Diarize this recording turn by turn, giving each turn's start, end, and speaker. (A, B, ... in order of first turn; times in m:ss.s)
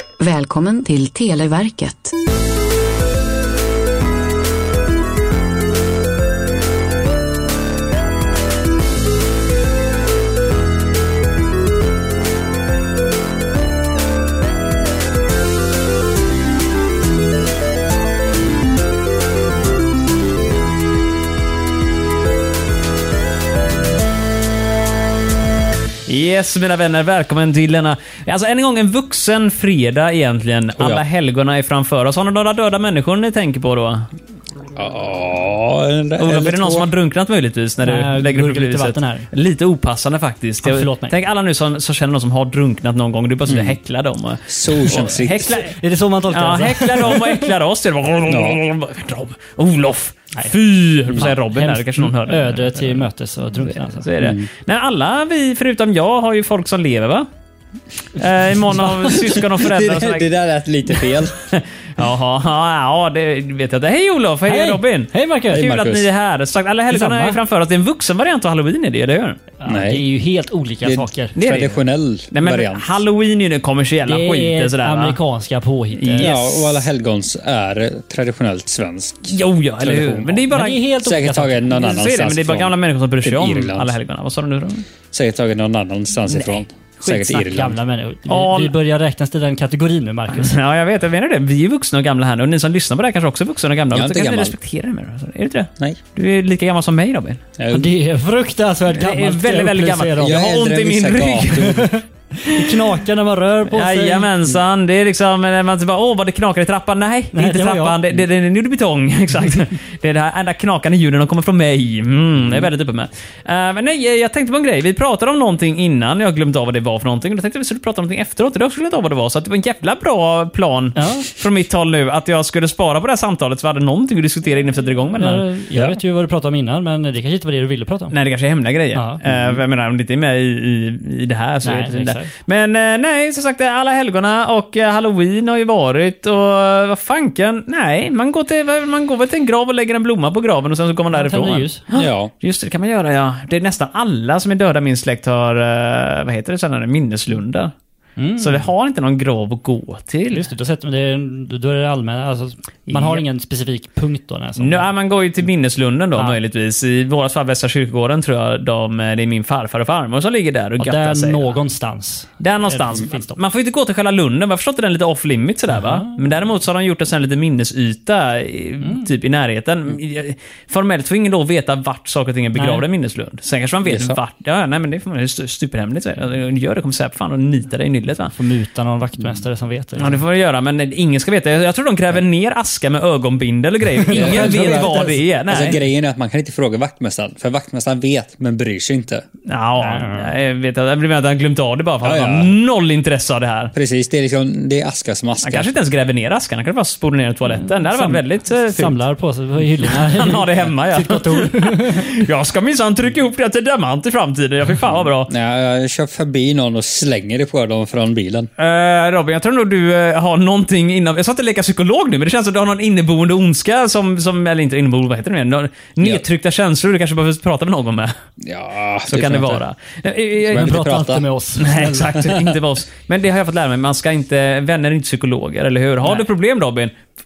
0:00.2-0:02.1 A
0:26.1-0:34.1 B
0:30.8-0:31.0 C
0:34.7-0:36.9 C
0:36.2-0:45.8 B
0:37.8-0:39.3 D
0:40.6-0:41.1 D
0:43.5-0:43.8 C
0:44.4-0:45.6 C
0:45.5-0:47.5 D
0:46.3-0:53.1 B
0:48.3-0:48.6 C
0:51.1-0:54.1 D
0:53.6-0:57.3 B
0:54.2-0:54.5 C
0:58.1-1:00.3 B
0:59.0-1:01.4 C
1:01.0-1:09.4 B
1:04.5-1:05.7 D
1:05.5-1:06.1 C
1:06.9-1:07.4 D
1:09.6-1:11.3 D
1:09.6-1:10.0 C
1:10.8-1:13.0 C
1:11.3-1:11.8 B
1:12.3-1:15.2 B
1:14.1-1:16.3 D
1:16.0-1:16.8 B
1:16.2-1:20.5 C
1:19.3-1:20.8 B
1:20.5-1:21.8 D
1:21.0-1:23.9 C
1:21.7-1:24.8 B
1:25.1-1:27.8 C
1:26.3-1:27.3 B
1:27.1-1:30.5 D
1:28.3-1:28.7 B
1:30.3-1:37.4 B
1:33.9-1:34.5 C
1:37.6-1:37.9 C
1:37.7-1:40.4 D
1:38.9-1:41.9 B
1:40.2-1:41.9 C
1:41.6-1:44.6 D
1:42.5-1:42.8 B
1:43.7-2:05.4 B
1:47.3-1:48.0 D
2:01.0-2:01.3 D
2:05.2-2:08.1 D
2:08.1-2:27.7 B
2:09.2-2:09.6 C
2:11.6-2:12.3 D
2:21.1-2:21.8 D
2:21.9-2:22.3 C
2:28.2-2:28.7 D
2:28.4-2:30.4 B
2:30.3-2:34.9 D
2:32.9-2:33.2 B
2:34.6-2:41.5 B
2:40.8-2:43.4 D
2:42.4-2:58.3 B
2:45.7-2:46.1 D
2:52.5-2:52.8 D
2:53.8-2:54.2 C
2:58.3-3:00.2 D
3:00.0-3:05.8 B
3:04.0-3:05.0 D
3:04.1-3:09.2 C
3:09.5-3:13.7 B
3:09.8-3:10.3 D
3:12.0-3:12.5 C
3:13.7-3:15.7 C
3:15.4-3:19.0 B
3:17.6-3:22.1 D
3:19.8-3:25.3 B
3:25.3-3:28.5 C
3:28.6-3:38.1 B
3:38.4-3:39.6 C
3:39.1-3:40.7 B
3:40.5-3:41.2 C
3:40.5-3:42.4 D
3:41.6-3:46.9 B